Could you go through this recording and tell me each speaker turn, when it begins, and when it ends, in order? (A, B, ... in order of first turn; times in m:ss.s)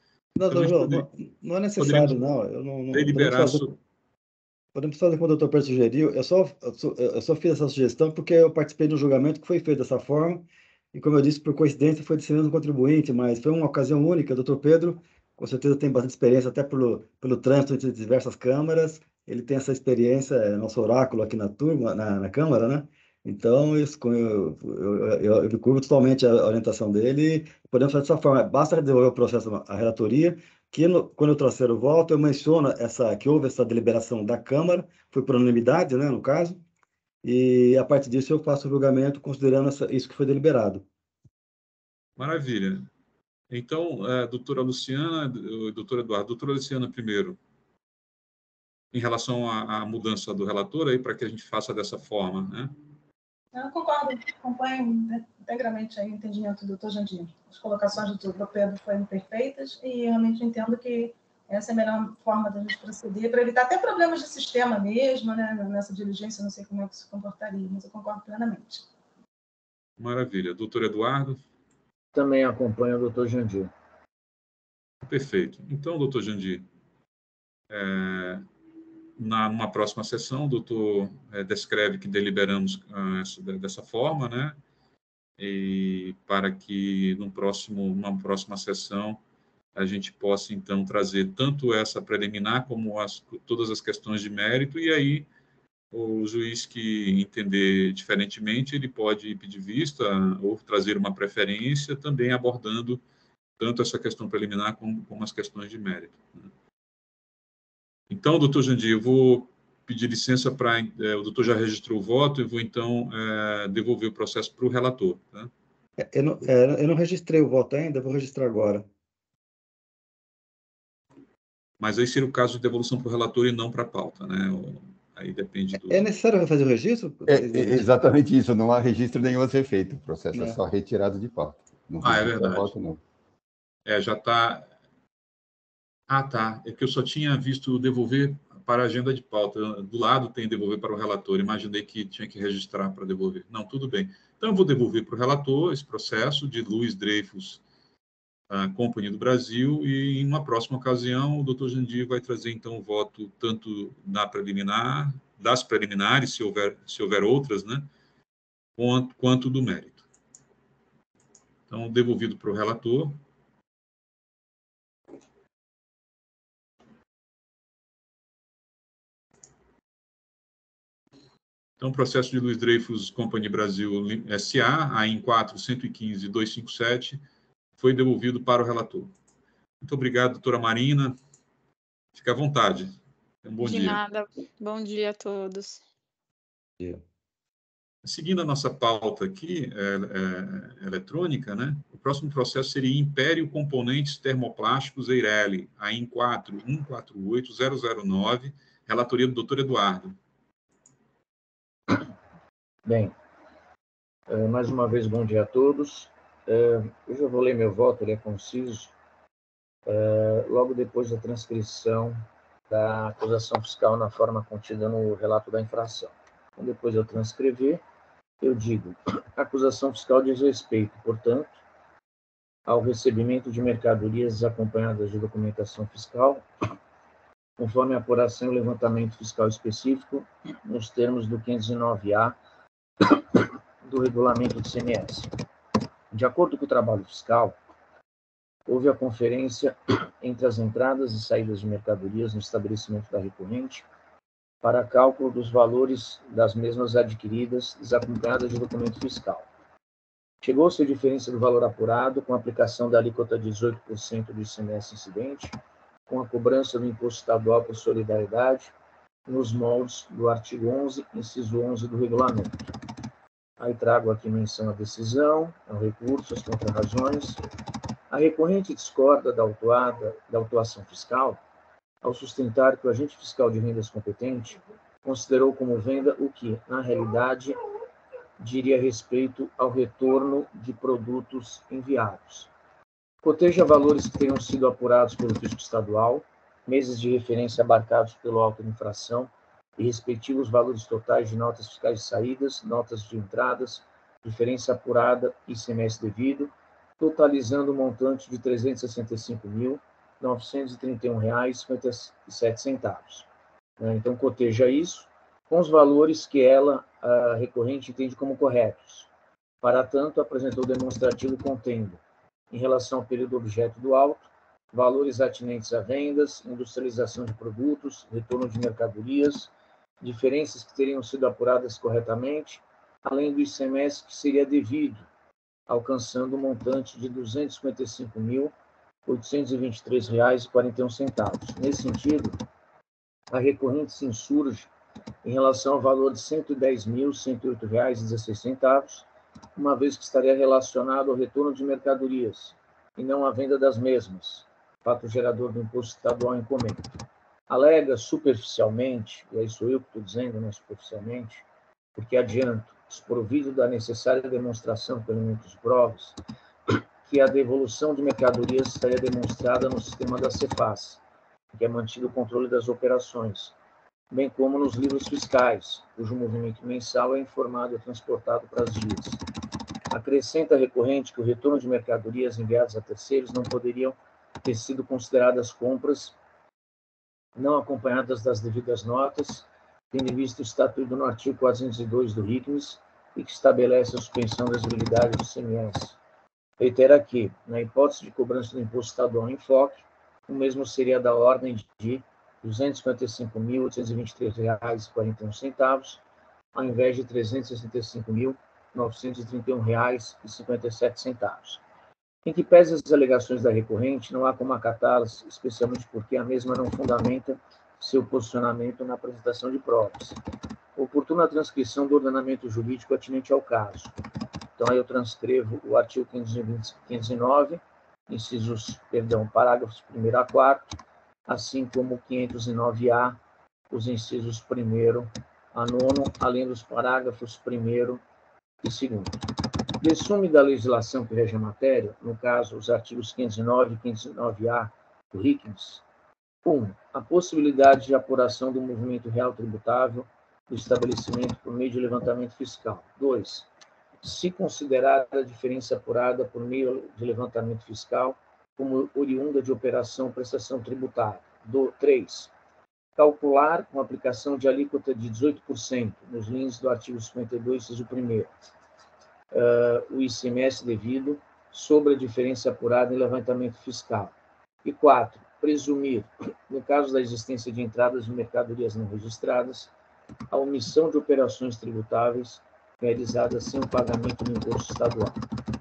0:00.4-0:03.6 A
0:00.5-0:01.1 B
0:01.8-0:02.2 B
0:02.9-0:03.8 B
0:04.7-0:36.6 A
0:37.2-0:40.8 A
0:42.2-0:42.9 B
0:43.5-0:47.4 B
0:48.9-0:52.7 B
0:53.5-1:08.8 C
1:10.0-1:11.4 B
1:12.1-1:13.7 D
1:15.1-1:16.7 B
1:17.7-1:18.4 B
1:19.2-1:24.6 B
1:25.4-1:29.2 B
1:29.8-1:35.3 B
1:35.9-1:43.0 B
1:43.6-1:46.5 B
1:48.1-1:55.5 B
1:56.0-1:58.9 A
2:01.8-2:06.0 B
2:05.7-2:07.9 A
2:07.3-2:13.0 E
2:10.3-2:10.6 A
2:12.0-2:12.7 B
2:13.9-2:14.7 B
2:16.1-2:27.6 B
2:28.5-2:37.9 B
2:38.8-2:40.0 B
2:41.7-2:43.2 B
2:51.8-2:57.2 B
2:57.8-2:59.1 B
2:59.8-3:01.2 B
3:02.1-3:04.0 B
3:03.6-3:05.8 F
3:08.0-3:20.2 B
3:22.8-3:23.2 D
3:24.3-3:28.9 D
3:29.9-3:32.2 D
3:32.7-3:37.8 D
3:38.4-3:41.5 D
3:42.7-3:46.4 D
3:47.6-3:52.4 D
3:53.0-3:55.3 D
3:56.1-3:57.6 D
3:58.7-4:03.8 D
4:04.6-4:09.5 D
4:10.4-4:15.6 D
4:16.1-4:18.7 D
4:19.3-4:22.6 D
4:23.6-4:27.4 D
4:28.1-4:31.4 D
4:32.0-4:37.6 D
4:38.4-4:42.5 D
4:43.2-5:03.3 D
5:03.8-5:09.1 D
5:09.6-5:19.5 D
5:20.0-5:25.1 D
5:25.7-5:28.5 D
5:29.1-5:32.4 D
5:33.3-5:34.7 D
5:35.2-5:46.9 D
5:47.5-5:51.4 D
5:52.0-5:56.2 D
5:56.7-6:01.0 D
6:01.5-6:03.6 D
6:04.1-6:09.2 D
6:09.9-6:16.2 D
6:17.4-6:26.0 D
6:26.6-6:36.0 D
6:36.5-6:41.6 D
6:42.2-6:50.2 D
6:50.8-6:54.0 D
6:54.6-7:00.7 D
7:01.3-7:03.2 D
7:03.7-7:08.0 D
7:08.6-7:09.2 D
7:09.8-7:15.8 D
7:16.4-7:23.5 D
7:24.0-7:32.3 D
7:33.0-7:38.3 D
7:39.3-7:49.7 D
7:50.3-7:55.2 D